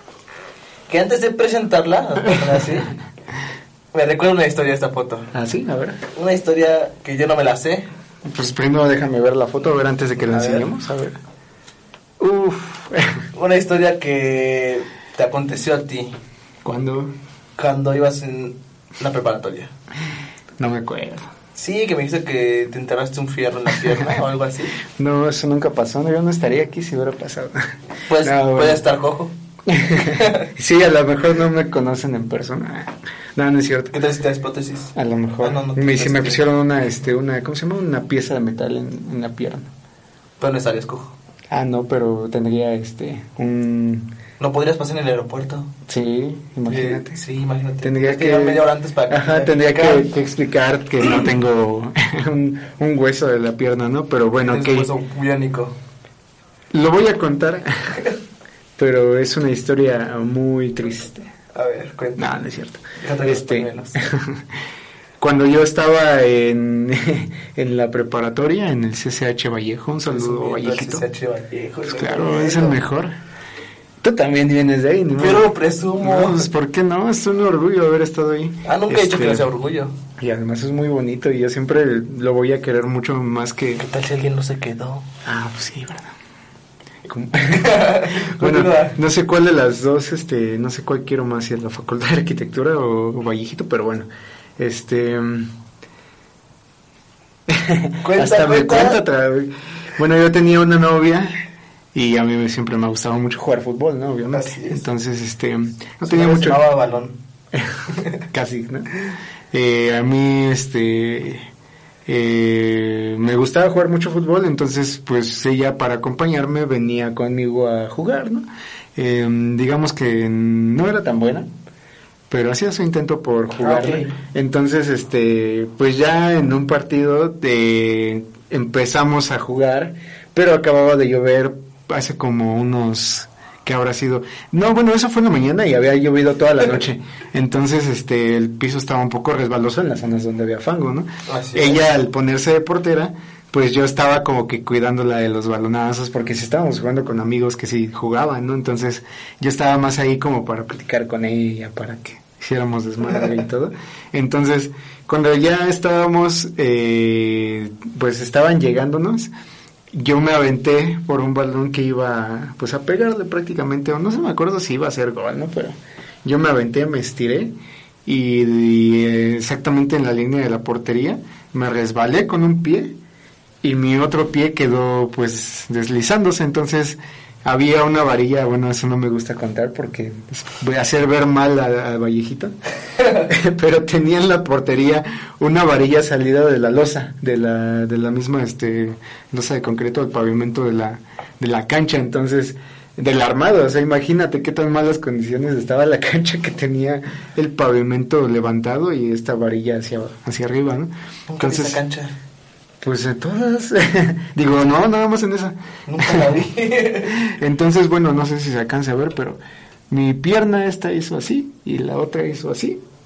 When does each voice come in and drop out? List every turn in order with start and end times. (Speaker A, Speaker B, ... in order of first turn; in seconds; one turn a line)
Speaker A: 0.9-2.9
Speaker A: 3.9-5.3
Speaker B: 5.3-6.0
Speaker A: 6.1-7.8
Speaker B: 8.2-11.2
Speaker A: 10.2-10.7
Speaker B: 12.2-13.2
Speaker A: 13.3-16.1
Speaker B: 16.6-17.1
Speaker A: 17.6-19.7
Speaker B: 20.6-21.3
Speaker A: 21.5-24.8
Speaker B: 24.9-27.6
Speaker A: 28.1-29.3
Speaker B: 28.2-28.8
Speaker B: 29.7-34.0
Speaker A: 30.0-30.5
Speaker A: 33.9-36.4
Speaker B: 34.9-39.7
Speaker A: 40.4-41.1
Speaker B: 41.5-44.1
Speaker A: 44.4-45.7
Speaker B: 45.9-47.2
Speaker A: 46.7-50.1
Speaker B: 47.8-54.9
Speaker A: 54.4-55.7
Speaker B: 56.7-58.0
Speaker B: 58.8-61.3
Speaker A: 61.5-62.3
Speaker B: 62.1-64.4
Speaker A: 63.0-64.0
Speaker B: 65.2-71.0
Speaker A: 70.1-72.8
Speaker B: 71.9-73.1
Speaker B: 74.0-75.5
Speaker A: 75.2-76.5
Speaker B: 76.0-79.5
Speaker A: 78.7-79.9
Speaker B: 80.2-83.8
Speaker A: 83.8-85.1
Speaker B: 85.2-86.1
Speaker B: 87.0-94.1
Speaker A: 87.5-89.0
Speaker B: 94.6-95.5
Speaker B: 97.5-101.3
Speaker A: 98.0-99.0
Speaker B: 101.9-106.6
Speaker A: 104.3-104.8
Speaker A: 106.0-107.2
Speaker B: 107.5-109.0
Speaker A: 107.9-108.2
Speaker B: 109.5-111.5
Speaker B: 112.0-118.4
Speaker B: 119.0-121.5
Speaker B: 122.3-159.3
Speaker A: 123.6-124.2
Speaker A: 141.3-142.0
Speaker B: 159.9-167.5
Speaker B: 168.0-172.9
Speaker B: 173.6-182.5
Speaker B: 183.1-201.8
Speaker A: 201.3-202.1
Speaker B: 202.8-206.4
Speaker A: 205.8-207.2
Speaker B: 207.1-209.4
Speaker B: 209.9-212.8